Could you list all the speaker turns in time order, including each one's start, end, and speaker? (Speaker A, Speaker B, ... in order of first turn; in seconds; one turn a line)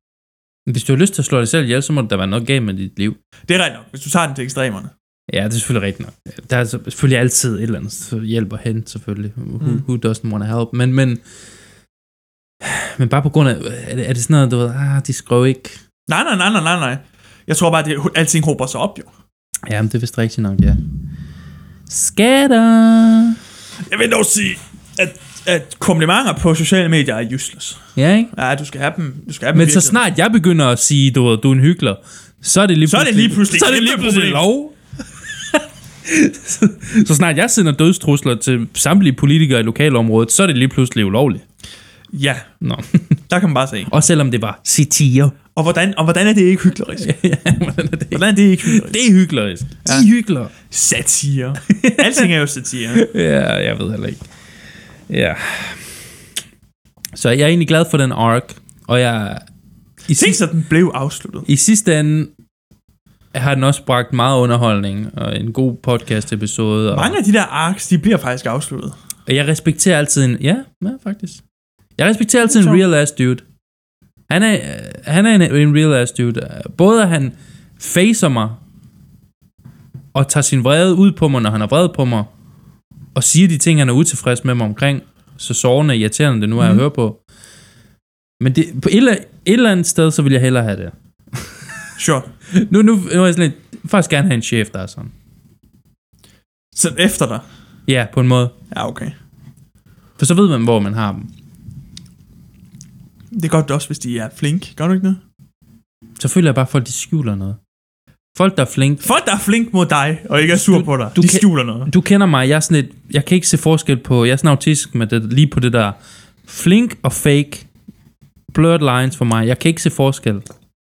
Speaker A: 0.7-3.2
Speaker B: 3.5-4.9
Speaker A: 5.3-11.2
Speaker A: 12.6-15.8
Speaker B: 16.1-19.1
Speaker A: 19.7-20.8
Speaker A: 21.9-23.4
Speaker B: 23.9-27.8
Speaker A: 28.0-28.3
Speaker B: 28.3-30.0
Speaker A: 29.5-34.8
Speaker B: 32.9-34.5
Speaker A: 35.3-41.4
Speaker B: 42.1-42.5
Speaker A: 42.6-43.2
Speaker B: 43.3-43.9
Speaker A: 43.9-45.4
Speaker B: 45.6-47.1
Speaker A: 47.0-50.5
Speaker B: 48.1-49.0
Speaker B: 50.7-53.0
Speaker A: 51.7-52.3
Speaker A: 53.0-54.2
Speaker A: 55.1-56.0
Speaker A: 57.1-59.4
Speaker A: 60.1-60.4
Speaker B: 60.2-61.5
Speaker A: 61.5-62.3
Speaker A: 63.3-67.2
Speaker B: 66.9-69.0
Speaker A: 69.3-71.4
Speaker A: 72.0-73.4
Speaker B: 72.5-72.8
Speaker A: 74.3-78.6
Speaker A: 80.1-82.3
Speaker A: 83.2-87.2
Speaker A: 88.4-91.8
Speaker B: 92.0-92.3
Speaker A: 92.5-95.1
Speaker B: 96.7-97.4
Speaker A: 97.9-98.5
Speaker B: 98.7-99.1
Speaker A: 100.2-101.3
Speaker B: 103.3-105.2
Speaker A: 106.2-107.6
Speaker A: 108.3-109.0
Speaker B: 109.0-111.9
Speaker A: 110.5-117.7
Speaker A: 118.5-120.5